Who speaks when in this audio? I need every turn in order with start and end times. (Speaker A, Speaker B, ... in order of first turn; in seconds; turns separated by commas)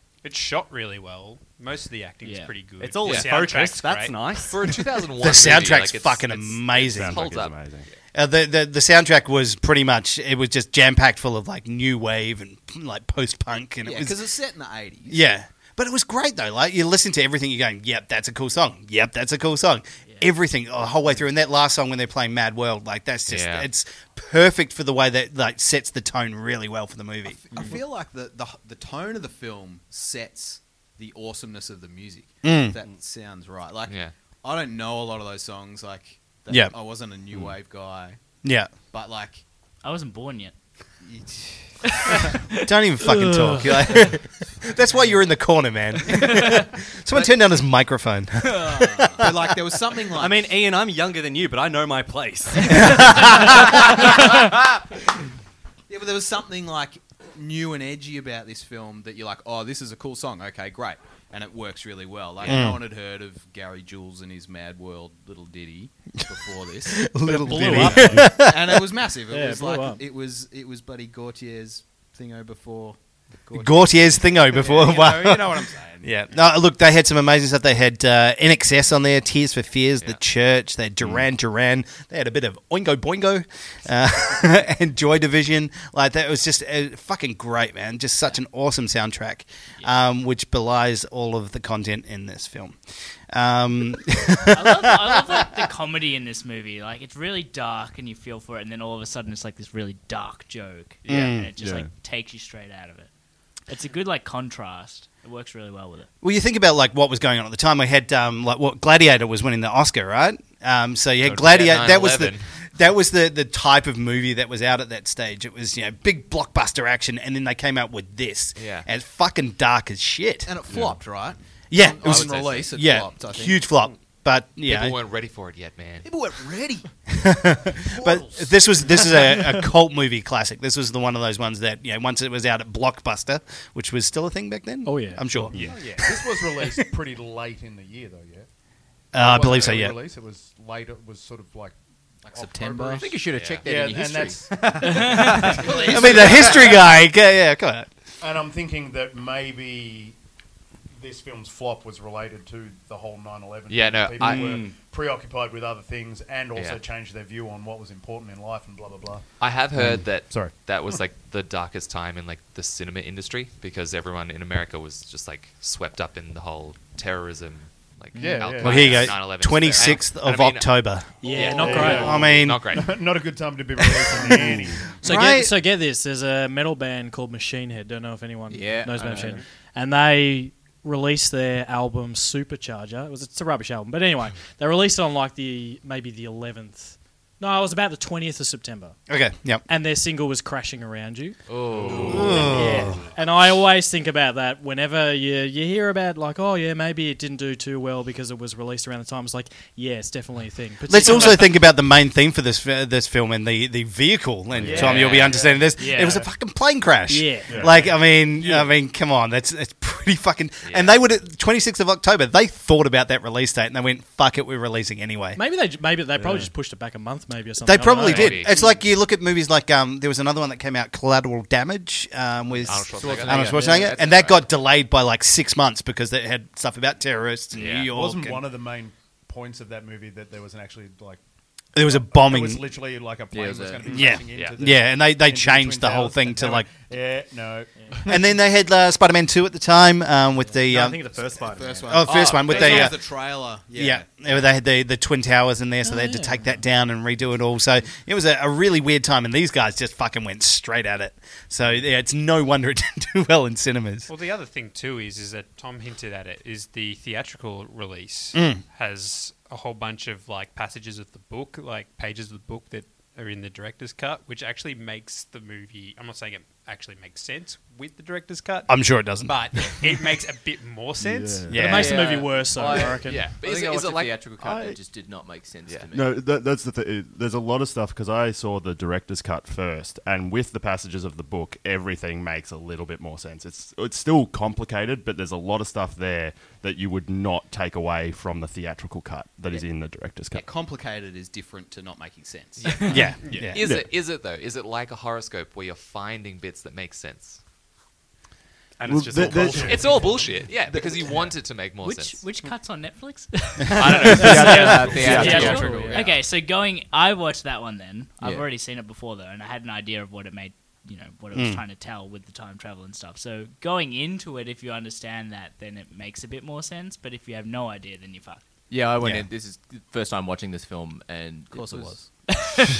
Speaker A: 0.2-4.3, Speaker B: 2.2-2.5, Speaker C: 2.8-4.6, Speaker D: 3.0-3.3, Speaker D: 4.4-7.6, Speaker E: 5.2-7.2, Speaker F: 6.7-7.8, Speaker E: 8.1-14.2, Speaker G: 13.8-15.2, Speaker E: 15.1-27.4, Speaker D: 23.3-23.7, Speaker G: 27.3-38.4, Speaker E: 32.4-32.8, Speaker D: 33.9-34.1, Speaker E: 36.5-36.7, Speaker E: 38.4-38.7, Speaker G: 38.9-39.4, Speaker B: 39.8-40.5, Speaker G: 41.0-41.9, Speaker E: 42.6-49.2, Speaker G: 48.7-50.5, Speaker C: 50.1-53.8, Speaker E: 52.8-53.5, Speaker G: 55.9-76.4, Speaker E: 62.4-62.8, Speaker E: 67.0-68.8, Speaker H: 67.2-68.4, Speaker H: 69.3-70.0, Speaker E: 73.5-92.8, Speaker E: 93.3-95.5, Speaker B: 94.5-103.1, Speaker E: 101.0-101.5, Speaker F: 101.6-101.9, Speaker B: 103.7-106.1, Speaker E: 106.2-120.5, Speaker D: 111.2-112.4, Speaker D: 118.5-118.9, Speaker G: 120.4-123.7, Speaker F: 120.7-121.0, Speaker E: 121.7-125.0, Speaker D: 122.0-122.7, Speaker D: 124.6-126.1, Speaker G: 126.0-126.9, Speaker E: 127.1-135.7, Speaker G: 127.8-129.2, Speaker H: 134.8-135.4, Speaker I: 135.3-138.5, Speaker F: 135.5-135.9, Speaker E: 139.1-140.0, Speaker I: 139.1-141.8, Speaker G: 142.2-143.1, Speaker I: 142.3-146.5, Speaker J: 142.9-144.6, Speaker D: 143.3-143.7, Speaker G: 144.8-146.7, Speaker E: 145.9-147.9, Speaker I: 148.2-150.2, Speaker I: 150.9-159.2, Speaker D: 153.7-154.7, Speaker E: 154.2-154.7, Speaker D: 156.5-156.8, Speaker D: 159.4-170.7, Speaker F: 159.8-160.1, Speaker I: 160.3-160.5, Speaker H: 168.1-168.6, Speaker I: 168.1-169.1, Speaker E: 168.6-172.7, Speaker H: 171.2-172.3, Speaker D: 171.3-172.9, Speaker I: 171.4-174.9, Speaker H: 174.1-189.0, Speaker E: 175.0-175.5, Speaker J: 178.5-179.4, Speaker E: 189.1-189.6, Speaker H: 189.7-191.4, Speaker D: 191.5-192.5, Speaker F: 191.9-192.3, Speaker E: 192.1-193.0, Speaker H: 192.4-201.5, Speaker E: 200.8-215.4, Speaker F: 204.5-205.0, Speaker C: 204.6-205.4, Speaker D: 204.8-205.4, Speaker B: 205.8-206.2, Speaker H: 207.1-207.7, Speaker F: 207.5-207.9, Speaker D: 210.7-211.0, Speaker H: 215.3-218.4, Speaker F: 216.2-216.5, Speaker E: 217.6-228.4, Speaker D: 218.0-218.5, Speaker D: 222.6-224.4, Speaker J: 223.0-223.9, Speaker C: 223.3-223.6, Speaker D: 227.5-227.9, Speaker I: 227.8-231.2, Speaker E: 231.7-232.6, Speaker I: 231.8-238.3, Speaker J: 233.3-234.2, Speaker E: 233.9-236.7, Speaker D: 234.3-234.6, Speaker E: 238.1-241.0, Speaker C: 240.6-242.0, Speaker G: 241.5-244.4, Speaker E: 241.9-254.1, Speaker J: 242.1-242.8, Speaker H: 245.8-246.4, Speaker A: 254.1-271.5, Speaker E: 258.3-258.6, Speaker E: 268.7-269.8, Speaker F: 271.0-271.7, Speaker E: 271.5-272.0, Speaker H: 271.5-273.3, Speaker J: 271.6-276.1, Speaker D: 273.0-274.3, Speaker F: 274.4-274.8, Speaker F: 275.9-290.4, Speaker G: 289.5-293.0, Speaker E: 292.9-293.6, Speaker D: 293.5-297.4, Speaker F: 293.6-293.9, Speaker C: 298.8-300.3, Speaker F: 298.8-301.0, Speaker D: 299.5-302.2, Speaker B: 301.8-318.4, Speaker E: 303.7-304.8, Speaker J: 303.8-306.1, Speaker F: 304.0-305.9, Speaker H: 304.1-306.2, Speaker E: 311.3-311.6, Speaker J: 318.7-322.0, Speaker E: 319.0-319.3, Speaker G: 321.5-322.2